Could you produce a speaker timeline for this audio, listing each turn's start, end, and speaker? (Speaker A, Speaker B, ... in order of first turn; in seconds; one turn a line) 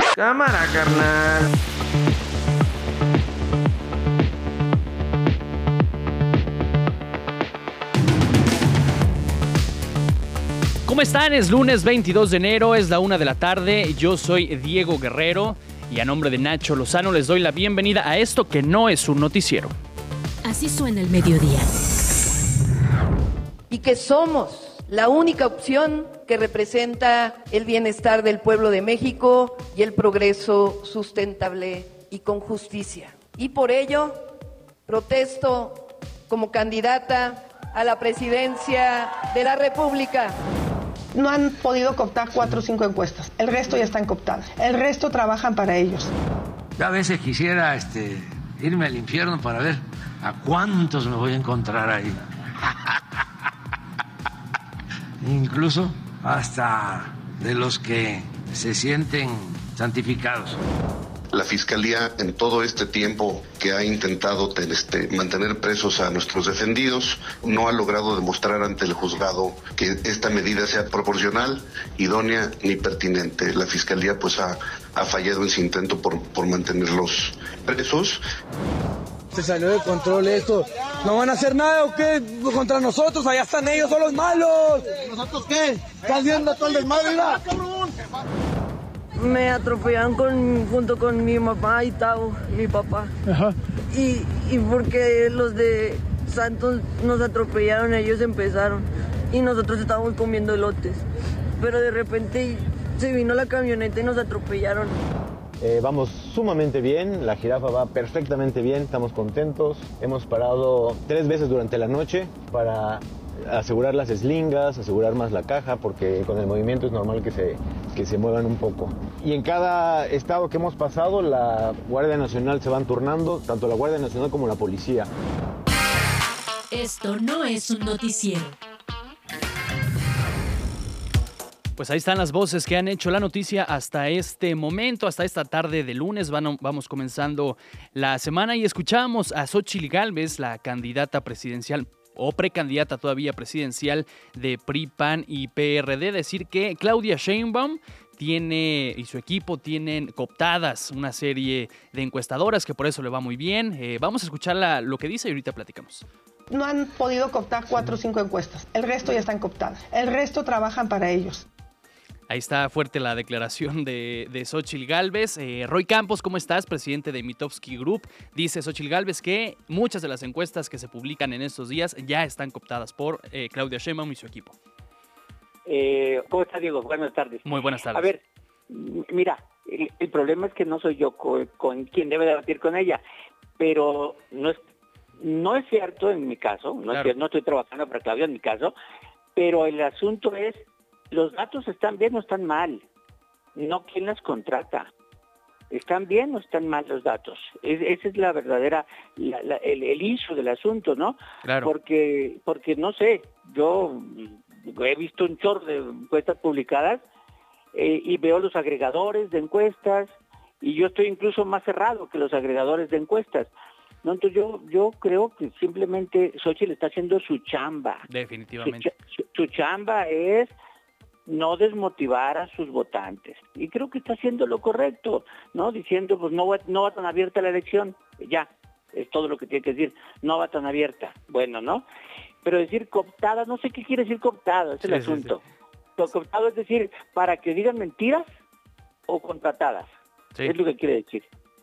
Speaker A: 0.1-1.5
Speaker B: 10.8-19.7
Speaker C: 20.4-21.7
Speaker D: 23.7-34.2
Speaker D: 34.9-40.4
Speaker E: 41.1-46.1
Speaker F: 46.8-53.0
Speaker F: 55.2-60.6
Speaker G: 61.3-78.2
Speaker H: 79.3-87.6
Speaker A: 89.2-93.1
Speaker A: 93.9-101.0
Speaker A: 101.6-104.9
Speaker I: 105.6-125.1
Speaker C: 126.7-128.6
Speaker B: 131.8-156.0
Speaker E: 156.5-161.4
Speaker B: 162.3-174.6
Speaker J: 175.7-183.0
Speaker B: 177.4-178.1
Speaker J: 183.6-184.6
Speaker J: 185.2-188.7
Speaker J: 189.3-192.8
Speaker J: 193.6-194.9
Speaker J: 195.7-207.0
Speaker B: 201.4-201.7
Speaker J: 207.7-213.5
Speaker J: 214.0-218.1
Speaker B: 218.1-218.9
Speaker J: 218.6-220.5
Speaker J: 221.3-231.8
Speaker J: 232.4-235.4
Speaker B: 234.8-235.3
Speaker J: 236.0-238.2
Speaker J: 239.1-239.9
Speaker J: 240.4-241.3